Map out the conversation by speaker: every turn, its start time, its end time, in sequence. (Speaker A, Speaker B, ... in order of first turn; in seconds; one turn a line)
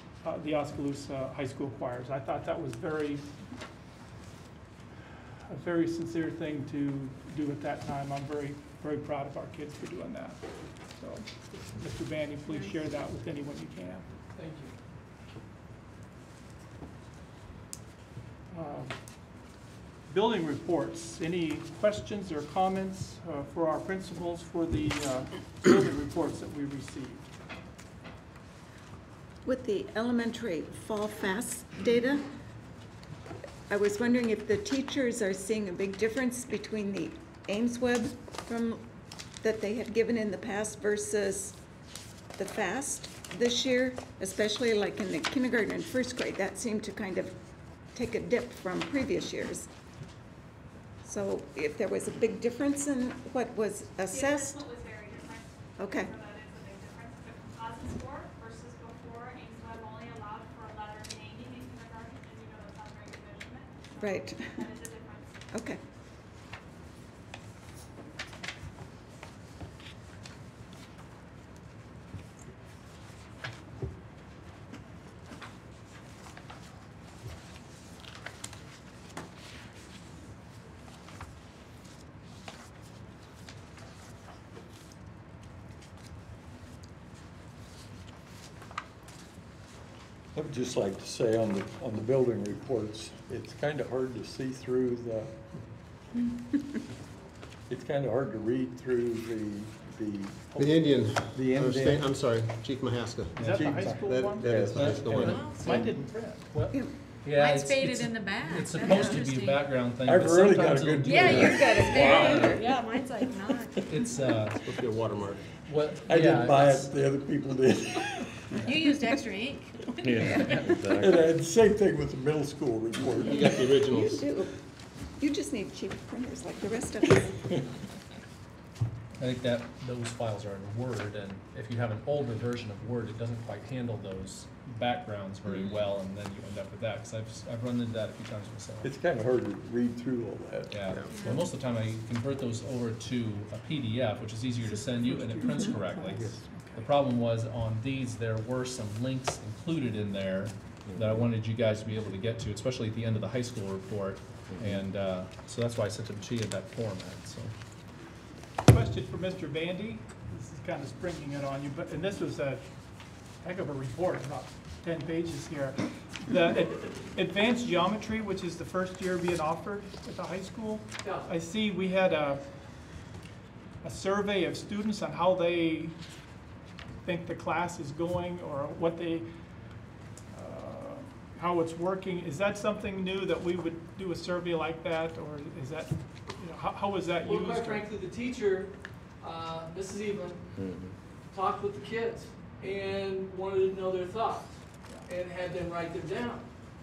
Speaker A: 0.2-3.2
Speaker A: 5.5-10.4
Speaker A: 11.0-14.0
Speaker B: 14.3-14.7
Speaker A: 18.5-18.9
Speaker A: 20.1-27.3
Speaker C: 29.4-32.2
Speaker C: 33.7-38.9
Speaker C: 39.4-41.6
Speaker C: 42.4-47.4
Speaker C: 47.9-49.7
Speaker C: 51.0-54.6
Speaker D: 54.1-65.4
Speaker C: 55.8-56.1
Speaker C: 64.0-64.7
Speaker C: 65.5-65.8
Speaker E: 90.3-95.4
Speaker E: 97.7-102.1
Speaker F: 100.6-105.4
Speaker A: 103.4-106.7
Speaker E: 103.5-106.0
Speaker G: 105.3-105.8
Speaker H: 107.2-112.6
Speaker G: 107.3-109.7
Speaker C: 108.8-109.2
Speaker E: 110.0-112.5
Speaker G: 111.0-113.7
Speaker C: 111.5-112.6
Speaker H: 113.8-114.6
Speaker F: 114.6-115.4
Speaker H: 115.7-116.9
Speaker E: 116.0-118.7
Speaker G: 118.6-119.9
Speaker E: 119.9-124.1
Speaker I: 120.0-121.2
Speaker F: 123.4-124.2
Speaker C: 123.5-124.5
Speaker C: 125.2-127.4
Speaker H: 129.2-138.9
Speaker E: 138.8-141.4
Speaker H: 140.7-157.5
Speaker A: 144.6-146.9
Speaker I: 150.9-151.2
Speaker I: 154.5-154.8
Speaker A: 158.6-162.7
Speaker A: 163.4-172.4
Speaker B: 171.0-171.3
Speaker A: 173.8-175.9
Speaker A: 177.0-179.3
Speaker A: 180.3-187.8
Speaker B: 187.2-190.5
Speaker I: 190.6-190.9
Speaker B: 191.3-196.5